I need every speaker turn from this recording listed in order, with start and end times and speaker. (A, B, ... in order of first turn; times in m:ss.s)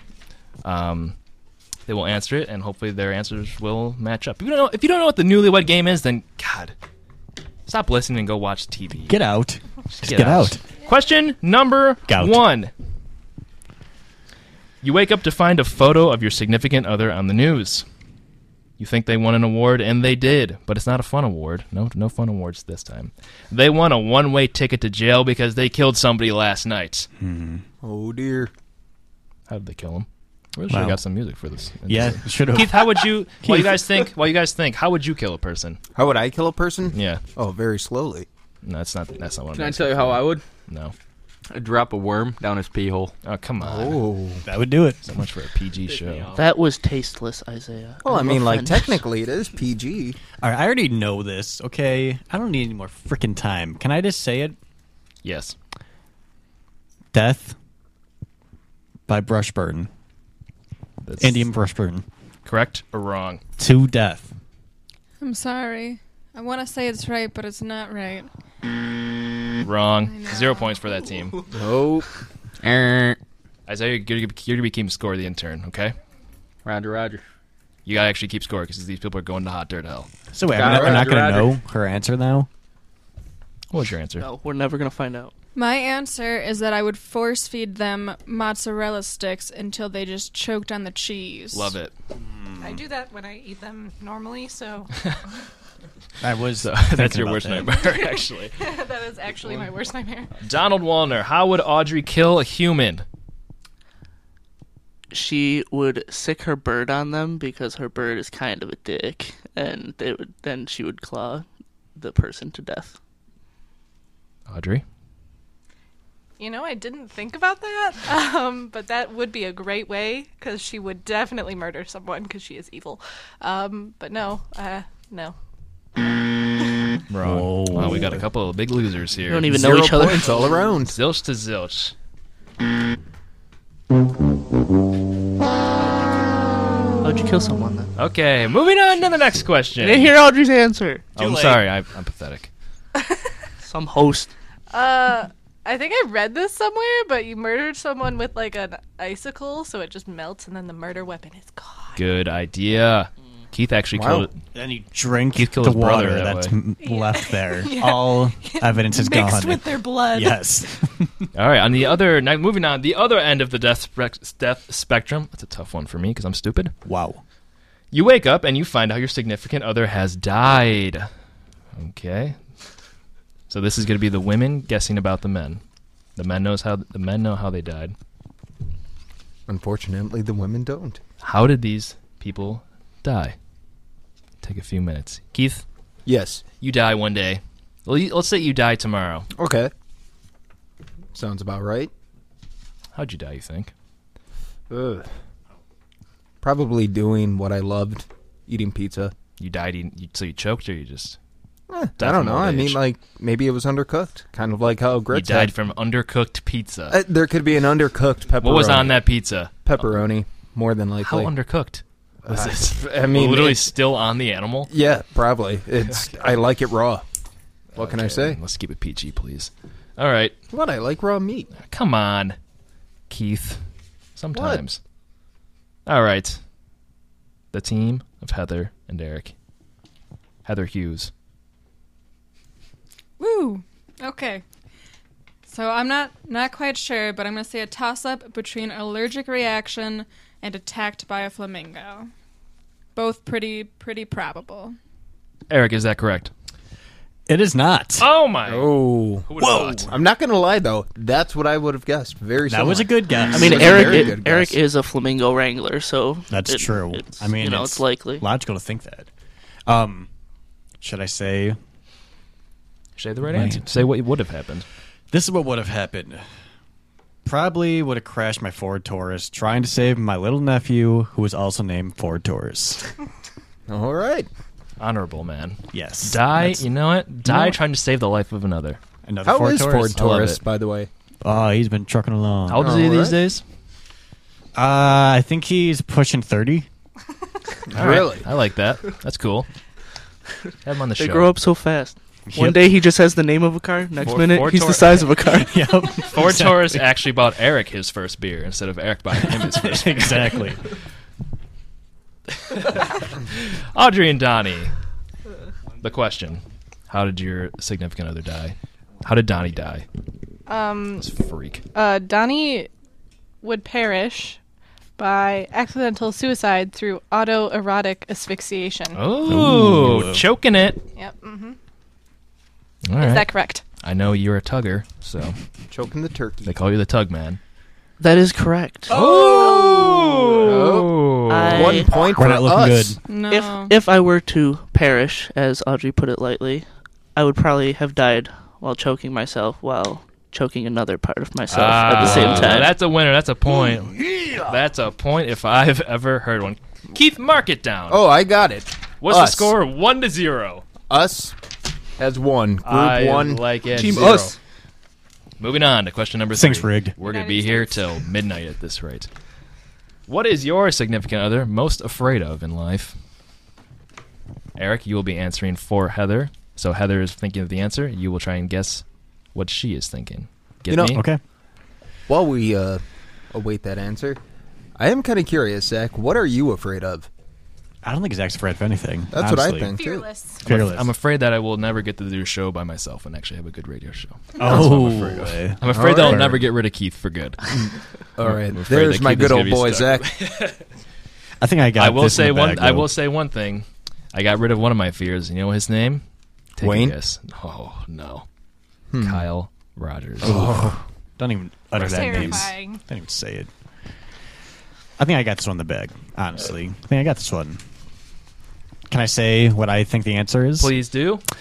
0:00.6-0:01.2 A
0:01.9-0:06.8 A
0:07.7-0:09.2 A
0:09.1-0:10.6 B
0:10.0-0:12.7 A
0:12.1-0:12.4 B
0:14.8-0:17.8 A
0:18.8-0:27.1 A
0:27.2-0:27.6 B
0:27.8-0:28.5 C
0:29.5-0:35.8 A
0:30.7-0:31.0 B
0:31.9-0:33.7 B
0:36.0-0:38.3 C
0:36.9-0:37.2 A
0:38.6-0:40.9 A
0:39.5-0:40.4 D
0:41.5-0:43.1 D
0:43.2-0:44.0 A
0:43.6-0:44.4 C
0:44.4-0:45.0 B
0:45.0-0:46.4 A
0:45.9-0:46.4 D
0:46.4-0:49.0 E
0:48.0-0:50.2 C
0:50.4-0:54.6 B
0:55.2-0:55.6 A
0:57.1-0:57.6 B
0:59.1-0:59.9 B
1:01.0-1:01.5 A
1:01.2-1:02.1 B
1:02.4-1:03.4 A
1:03.6-1:04.3 B
1:05.2-1:08.3 F
1:09.6-1:11.4 A
1:10.1-1:10.8 F
1:11.5-1:12.1 C
1:12.6-1:13.2 D
1:13.7-1:16.0 A
1:16.6-1:17.2 D
1:17.9-1:20.1 A
1:20.3-1:22.5 B
1:20.6-1:21.2 C
1:20.6-1:21.6 D
1:23.7-1:24.3 A
1:24.2-1:25.3 E
1:25.6-1:31.7 F
1:31.5-1:31.9 A
1:32.2-1:32.8 B
1:32.6-1:34.9 G
1:36.2-1:37.7 B
1:36.6-1:38.6 A
1:37.8-1:40.3 G
1:40.4-1:43.0 A
1:45.1-1:53.0 E
1:54.5-1:54.8 A
1:56.4-2:05.4 G
2:07.1-2:09.5 A
2:07.2-2:08.2 B
2:09.3-2:10.7 E
2:09.5-2:11.0 C
2:10.8-2:11.9 A
2:17.0-2:17.9 E
2:18.0-2:20.1 A
2:19.8-2:21.1 E
2:21.2-2:21.6 B
2:21.2-2:22.5 A
2:23.6-2:24.3 E
2:24.7-2:32.0 G
2:32.0-2:34.4 A
2:33.9-2:34.3 C
2:34.5-2:41.3 B
2:35.3-2:36.5 A
2:36.8-2:40.5 G
2:41.3-2:46.7 A
2:46.8-2:47.2 B
2:47.9-2:51.1 A
2:51.8-2:52.4 A
2:53.5-2:55.6 A
2:56.2-2:58.0 A
2:59.5-3:01.0 C
3:01.2-3:03.4 A
3:04.4-3:05.6 A
3:06.1-3:06.4 C
3:06.6-3:09.3 A
3:09.4-3:09.7 C
3:11.1-3:11.9 C
3:12.9-3:13.7 A
3:14.7-3:15.1 C
3:16.4-3:19.1 C
3:19.4-3:21.2 A
3:21.7-3:25.5 C
3:22.0-3:22.8 A
3:25.1-3:27.0 A
3:26.9-3:29.0 C
3:28.4-3:29.6 A
3:29.6-3:31.3 C
3:31.0-3:34.7 A
3:32.3-3:33.7 C
3:34.7-3:37.0 C
3:37.7-3:40.4 A
3:37.8-3:38.4 C
3:40.5-3:41.5 C
3:41.6-3:42.4 A
3:43.1-3:43.6 A
3:44.2-3:44.8 A
3:44.3-3:44.6 C
3:45.9-3:46.4 A
3:47.5-3:49.3 A
3:50.4-3:51.1 A
3:53.2-3:54.4 F
3:55.5-4:02.1 F
4:03.0-4:04.8 F
4:05.5-4:06.3 A
4:07.3-4:08.1 B
4:08.0-4:08.8 A
4:08.5-4:14.6 C
4:09.3-4:09.9 A
4:12.5-4:14.2 B
4:13.3-4:18.2 E
4:16.3-4:19.1 B
4:19.7-4:20.1 B
4:20.8-4:21.6 B
4:23.0-4:24.7 A
4:23.3-4:23.9 B
4:25.1-4:26.3 B
4:27.2-4:32.9 B
4:33.7-4:34.3 C
4:34.8-4:38.8 A
4:35.7-4:36.6 B
4:39.1-4:40.0 B
4:39.2-4:40.9 C
4:40.0-4:40.4 A
4:41.2-4:42.8 B
4:42.5-4:43.4 A
4:42.6-4:43.2 C
4:44.6-4:46.7 B
4:47.7-4:48.3 C
4:47.7-4:49.5 A
4:50.6-4:51.3 A
4:51.0-4:55.6 E
4:52.3-4:52.7 B
4:54.0-4:55.1 A
4:55.5-4:56.9 B
4:56.0-5:00.5 A
4:59.1-5:00.6 B
5:02.4-5:04.8 A
5:05.8-5:09.8 A
5:10.5-5:11.1 G
5:11.0-5:11.6 A
5:11.7-5:12.7 G
5:13.4-5:14.4 G
5:15.0-5:19.0 G
5:19.0-5:20.8 A
5:19.3-5:20.3 B
5:21.0-5:21.6 G
5:22.9-5:23.3 A
5:23.0-5:23.6 G
5:23.8-5:25.4 A
5:25.7-5:26.6 C
5:26.4-5:27.4 A
5:28.0-5:29.1 E
5:28.9-5:31.9 A
5:29.1-5:30.4 G
5:29.2-5:29.6 B
5:30.4-5:33.0 C
5:31.3-5:32.1 E
5:32.1-5:33.0 B
5:33.1-5:33.8 F
5:33.2-5:42.8 E
5:41.5-5:48.0 A
5:41.9-5:42.6 B
5:47.9-5:49.5 C
5:49.0-5:50.6 A
5:50.9-5:51.4 C
5:52.0-5:54.4 C
5:52.6-5:54.3 A
5:55.4-5:59.1 A
5:56.3-5:57.0 B
5:57.0-5:58.0 G
6:00.1-6:03.0 A
6:04.6-6:11.0 A
6:10.7-6:11.0 C
6:10.9-6:11.2 B
6:12.1-6:14.2 C
6:14.8-6:17.1 C
6:17.8-6:19.8 B
6:19.1-6:20.1 C
6:19.7-6:20.4 G
6:20.4-6:20.9 B
6:20.4-6:30.6 A
6:24.4-6:26.4 B
6:25.6-6:26.5 C
6:28.2-6:30.1 C
6:31.4-6:32.9 B
6:31.8-6:36.0 A
6:36.6-6:38.3 A
6:36.6-6:37.0 C
6:38.9-6:39.3 C
6:39.0-6:40.7 A
6:40.2-6:43.5 B
6:40.2-6:40.8 C
6:41.8-6:42.8 G
6:42.0-6:42.4 A
6:45.0-6:47.6 B
6:48.9-6:50.8 B
6:50.6-6:51.2 A